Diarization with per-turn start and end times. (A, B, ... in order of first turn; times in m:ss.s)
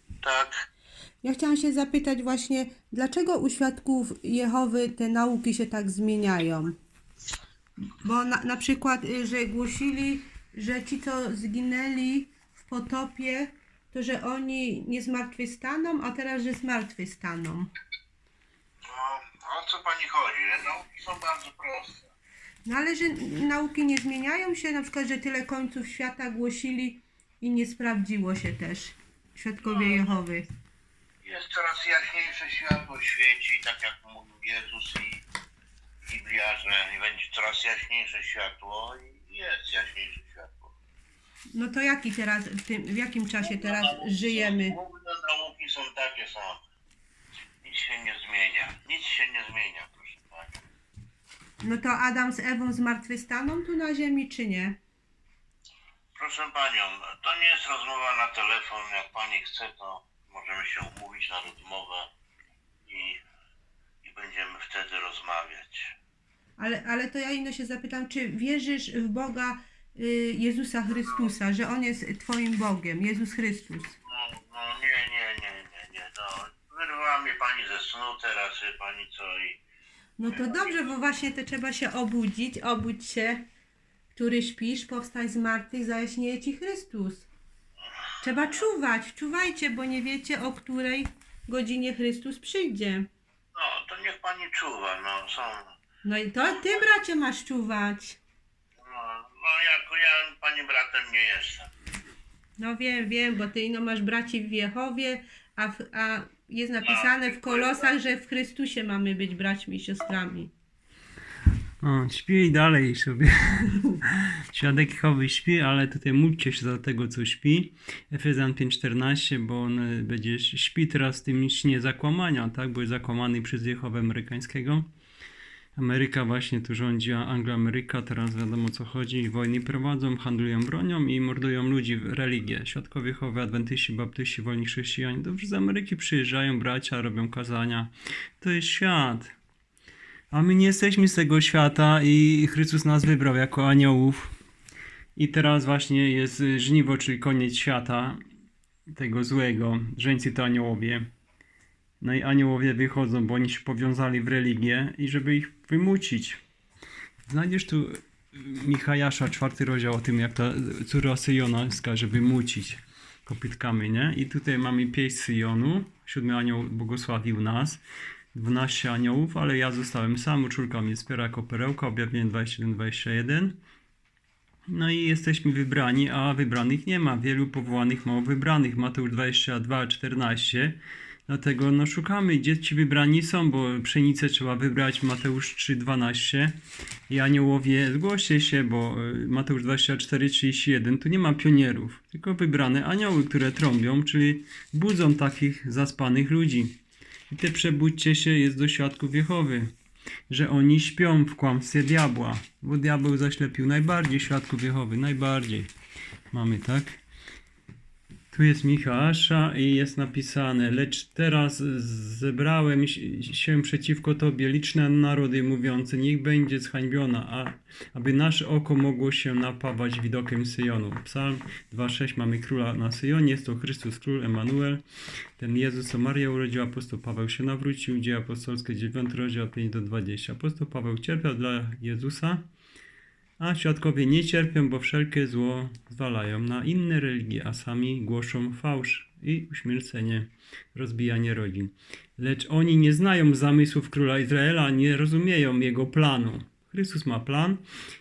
0:00.2-0:00.5 A
0:01.2-0:06.7 B
0:07.9-0:17.7 B
0:18.8-0:22.1 A
0:22.6-0:30.5 B
0:29.6-0:30.1 A
0:31.2-0:35.2 A
0:36.0-0:40.7 A
0:41.5-0:44.7 B
0:43.4-0:46.6 A
0:47.6-0:50.6 A
0:51.6-0:54.8 B
0:56.2-1:02.1 A
1:02.9-1:03.2 A
1:04.0-1:05.8 A
1:06.6-1:13.9 B
1:14.1-1:19.6 A
1:20.2-1:23.4 B
1:20.2-1:21.2 A
1:24.1-1:27.3 B
1:28.2-1:33.1 B
1:33.5-1:35.7 A
1:36.0-1:38.2 B
1:36.5-1:36.8 A
1:38.8-1:41.7 A
1:42.6-1:50.5 B
1:46.8-1:48.0 A
1:51.8-2:04.9 C
2:05.8-2:19.3 C
2:20.3-2:24.3 C
2:25.2-2:28.2 C
2:28.9-2:31.0 C
2:32.0-2:36.4 C
2:37.3-2:47.8 C
2:48.3-2:53.6 C
2:54.7-3:06.6 C
3:07.1-3:16.8 C
3:17.3-3:19.7 C
3:20.3-3:25.7 C
3:26.3-3:27.0 C
3:28.3-3:44.8 C
3:45.4-3:52.4 C
3:53.4-4:07.6 C